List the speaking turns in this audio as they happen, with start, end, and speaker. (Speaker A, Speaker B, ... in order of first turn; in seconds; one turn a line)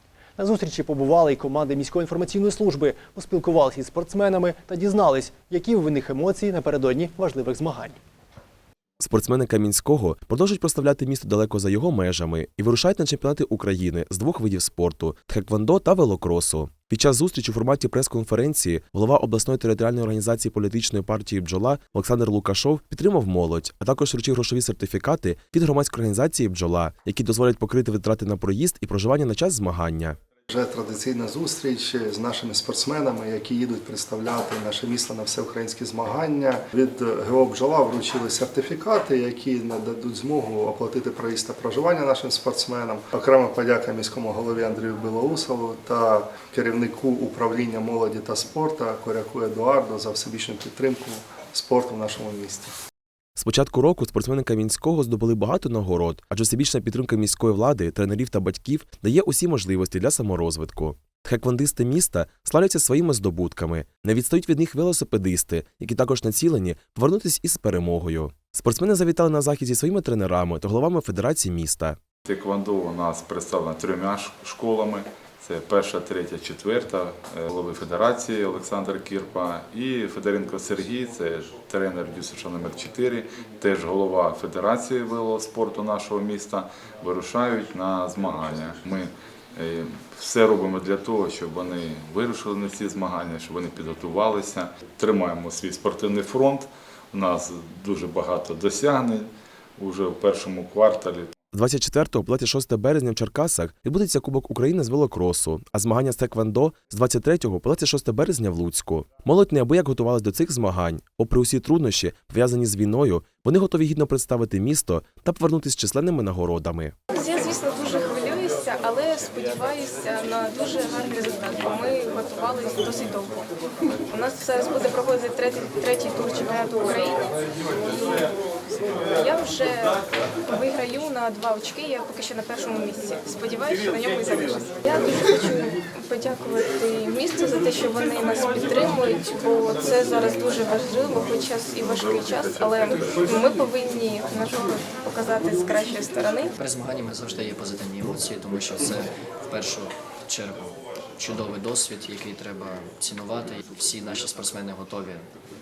Speaker A: 0.4-8.0
Speaker B: 9.0-30.2
Speaker C: 30.5-52.7
Speaker B: 53.4-72.0
Speaker D: 72.2-101.3
Speaker B: 101.5-116.9
Speaker E: 117.1-123.5
Speaker E: 124.1-146.5
Speaker D: 141.8-143.2
Speaker F: 146.6-155.3